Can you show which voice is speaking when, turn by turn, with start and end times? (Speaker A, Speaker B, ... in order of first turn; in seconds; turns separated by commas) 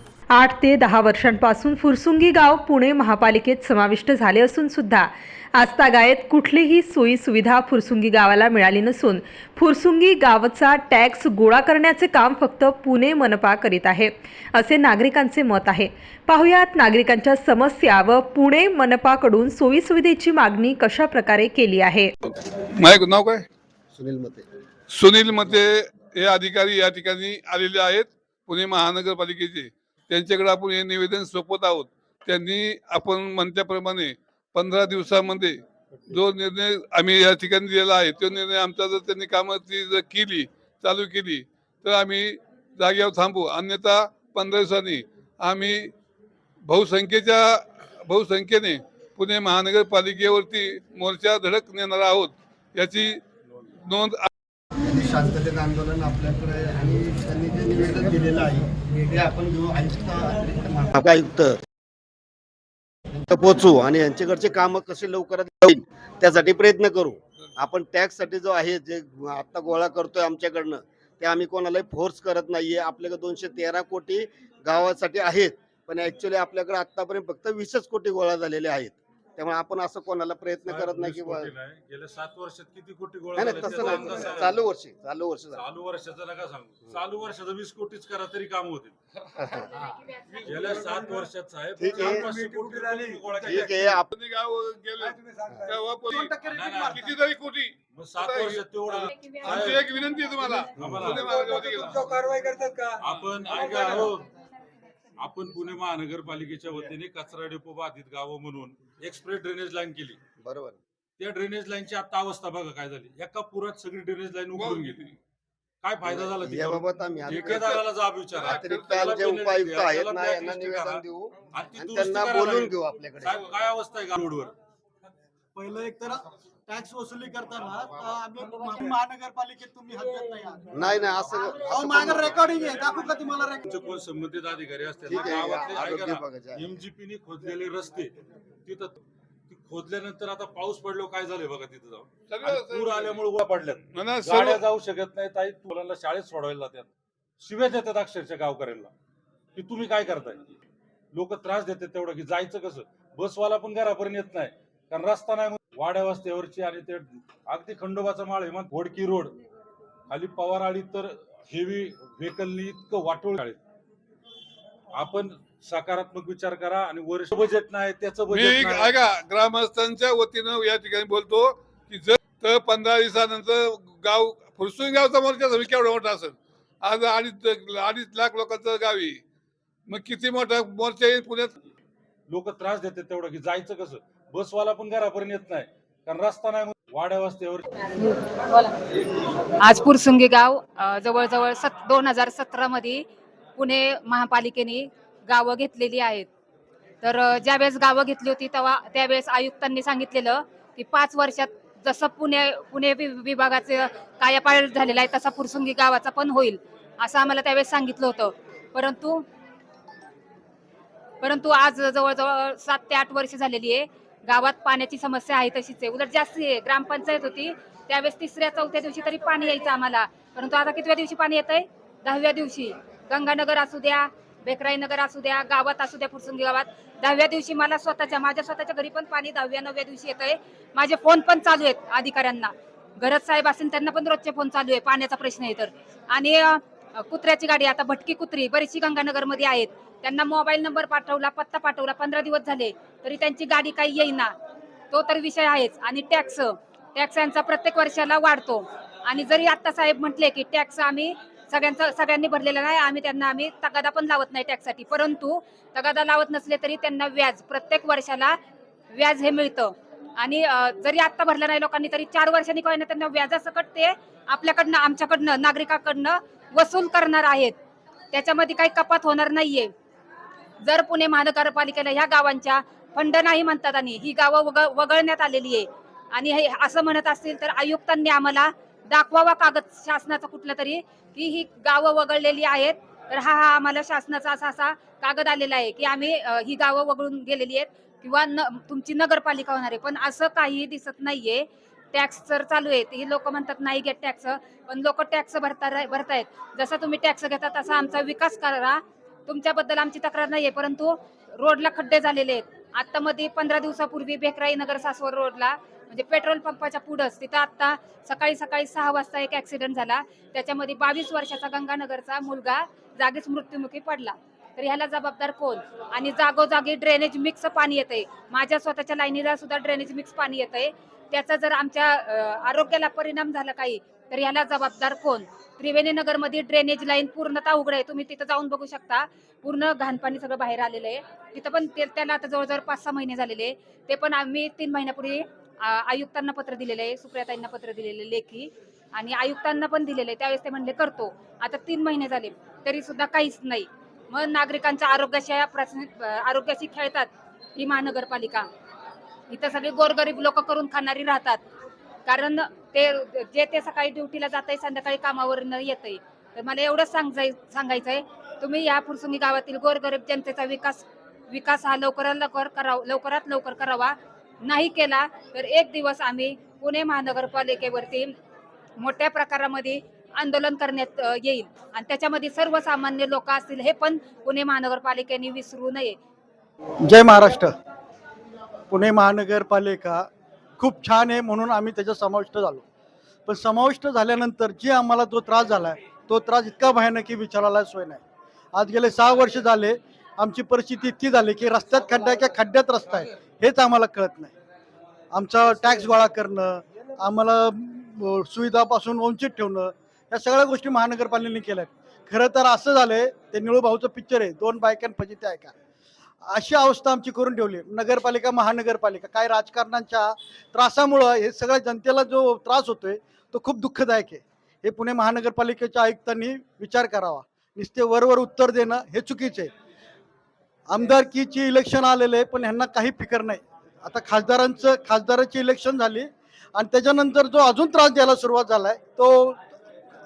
Speaker A: 0.3-22.1, Speaker B: 22.8-23.5, Speaker C: 23.9-24.4, Speaker B: 24.9-45.9, Speaker B: 46.7-53.2, Speaker B: 53.9-54.3, Speaker C: 54.8-61.6, Speaker C: 63.1-81.5, Speaker D: 80.6-84.7, Speaker C: 83.4-85.7, Speaker E: 83.7-84.2, Speaker D: 85.5-89.0, Speaker C: 89.4-89.7, Speaker B: 90.3-90.7, Speaker D: 90.5-94.0, Speaker E: 90.6-91.0, Speaker C: 91.8-92.3, Speaker E: 92.0-93.7, Speaker C: 93.4-94.1, Speaker B: 94.1-102.0, Speaker E: 95.0-97.0, Speaker D: 96.4-97.1, Speaker D: 97.9-99.9, Speaker E: 99.5-99.7, Speaker D: 100.8-101.3, Speaker C: 100.8-101.1, Speaker E: 101.2-104.2, Speaker D: 103.0-104.3, Speaker D: 105.2-110.2, Speaker C: 110.4-110.8, Speaker D: 111.2-115.0, Speaker B: 114.6-115.2, Speaker D: 115.8-124.5, Speaker C: 116.0-117.8, Speaker B: 117.5-117.8, Speaker B: 118.4-119.0, Speaker C: 118.4-123.4, Speaker E: 125.5-133.7, Speaker C: 130.7-132.4, Speaker D: 133.6-138.1, Speaker C: 135.1-136.8, Speaker D: 138.7-139.0, Speaker D: 139.5-146.9, Speaker B: 142.3-143.2, Speaker B: 143.9-144.6, Speaker D: 147.4-148.9, Speaker D: 149.6-150.5, Speaker D: 151.1-159.4, Speaker D: 160.1-163.6, Speaker D: 164.9-168.9, Speaker B: 168.3-179.2, Speaker B: 179.9-181.5, Speaker D: 182.3-187.6, Speaker F: 187.9-188.8, Speaker F: 189.6-196.3, Speaker F: 197.0-209.2, Speaker F: 211.2-244.3, Speaker F: 244.9-258.4, Speaker F: 258.9-267.6, Speaker F: 268.1-269.7, Speaker F: 270.6-348.5, Speaker F: 349.3-351.4, Speaker F: 352.1-368.1, Speaker F: 368.8-376.0, Speaker E: 376.9-377.5, Speaker E: 378.7-380.1, Speaker E: 380.6-382.6, Speaker E: 383.3-388.0, Speaker E: 388.5-394.3, Speaker E: 395.1-405.5, Speaker E: 406.3-419.5, Speaker E: 420.7-429.4